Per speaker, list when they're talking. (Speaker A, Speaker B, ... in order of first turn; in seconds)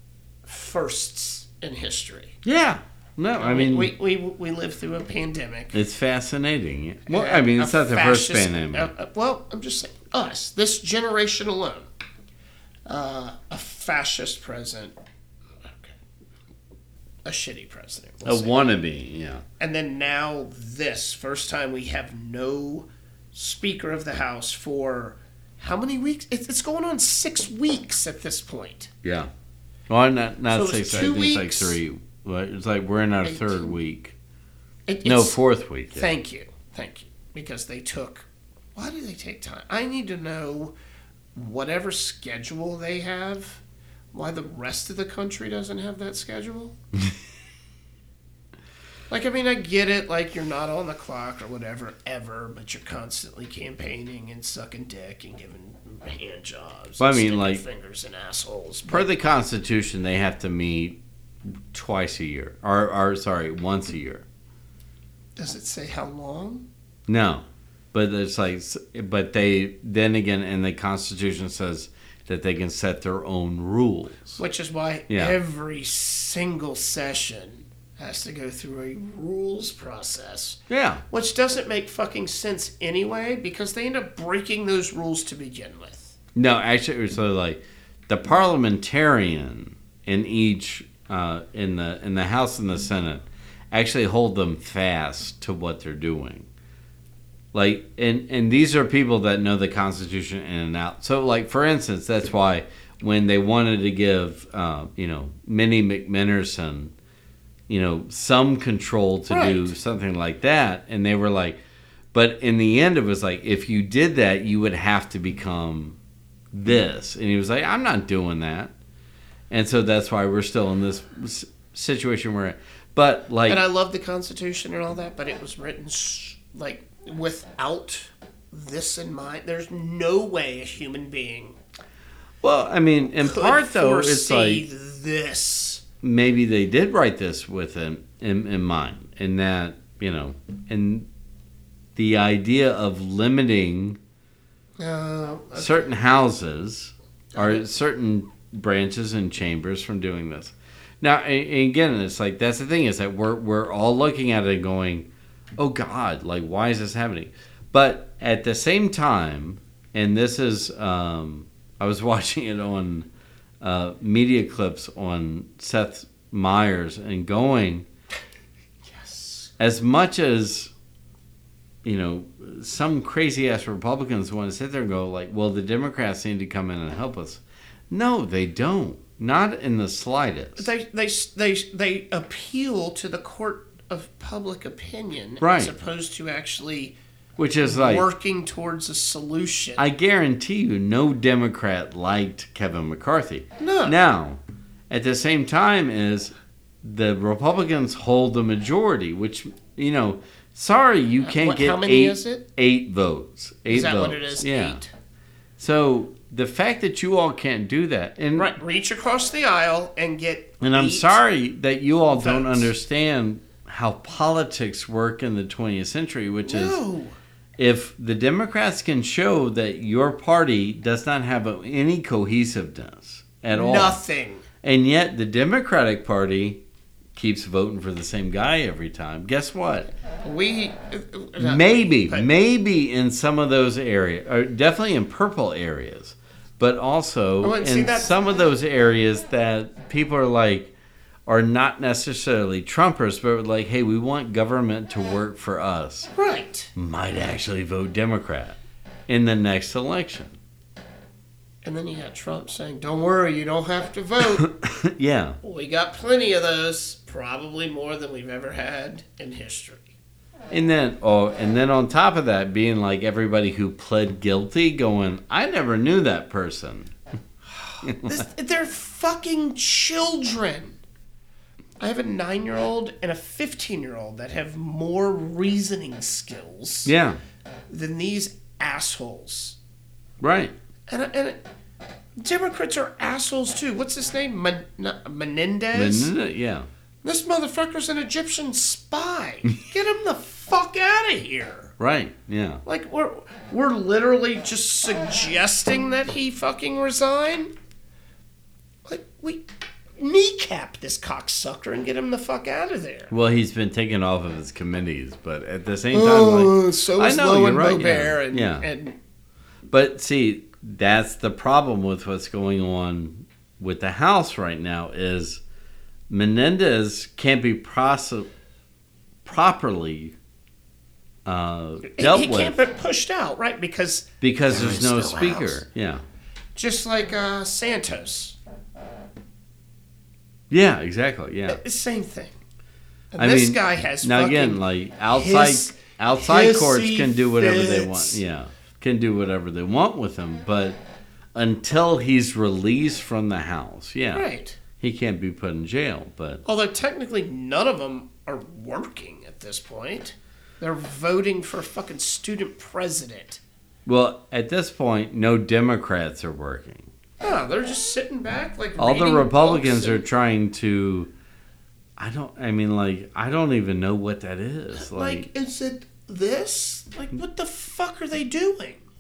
Speaker A: 0.4-2.4, 3.3-5.8, 7.1-11.9, 12.8-15.0, 15.6-15.9, 17.2-18.7, 19.6-28.9, 30.5-31.8, 33.2-33.7, 34.9-35.4, 35.9-40.7, 41.3-43.6, 44.1-46.7, 49.1-59.1, 65.3-66.7, 74.4-86.2, 109.3-109.7, 123.5-131.6, 133.2-135.8, 144.8-145.9, 147.3-147.6, 168.8-169.5, 180.6-187.0, 187.6-189.8, 193.6-193.9, 201.2-202.4, 203.7-204.9, 208.3-211.2, 212.1-212.7, 216.4-217.1, 223.5-224.4, 230.2-232.3, 237.4-238.2, 246.2-246.7, 251.6-254.4, 255.4-259.9, 267.9-270.8, 271.8-276.9, 277.7-279.6, 280.9-281.4, 282.2-286.1, 287.0-291.7, 292.6-297.5, 298.8-303.1, 305.9-309.0, 321.9-325.6, 326.6-328.4, 331.5-332.4, 333.1-338.2, 344.1-344.6, 346.4-353.4, 357.2-360.1, 364.7-368.9
Speaker B: 2.4-3.9, 5.7-8.9, 18.2-19.4, 29.0-29.3, 29.9-34.1, 35.0-36.1, 57.0-57.6, 58.9-61.0, 61.7-64.2, 67.1-74.4, 75.1-75.3, 80.7-81.0, 86.3-96.5, 97.5-106.9, 107.7-111.6, 112.1-116.0, 116.5-118.7, 119.5-123.6, 132.4-134.7, 136.0-141.1, 141.9-144.0, 145.6-155.1, 155.6-163.1, 163.6-167.8, 169.6-170.7, 171.8-180.7, 185.4-185.7, 187.4-188.1, 189.8-204.8, 205.6-208.5, 210.6-216.8, 217.6-224.0, 224.6-226.6, 227.2-229.9, 231.4-240.7, 241.3-246.1, 246.7-250.4, 254.3-255.4, 260.5-266.9, 267.8-268.2, 276.9-277.2, 280.2-280.5, 285.7-286.7, 291.8-292.6, 303.1-308.7, 309.7-315.4, 316.1-318.3, 319.2-320.1, 321.2-322.6, 324.2-326.0, 330.5-331.6, 333.2-340.8, 341.3-344.2, 344.8-346.4, 353.9-356.9, 358.8-361.1, 362.0-365.3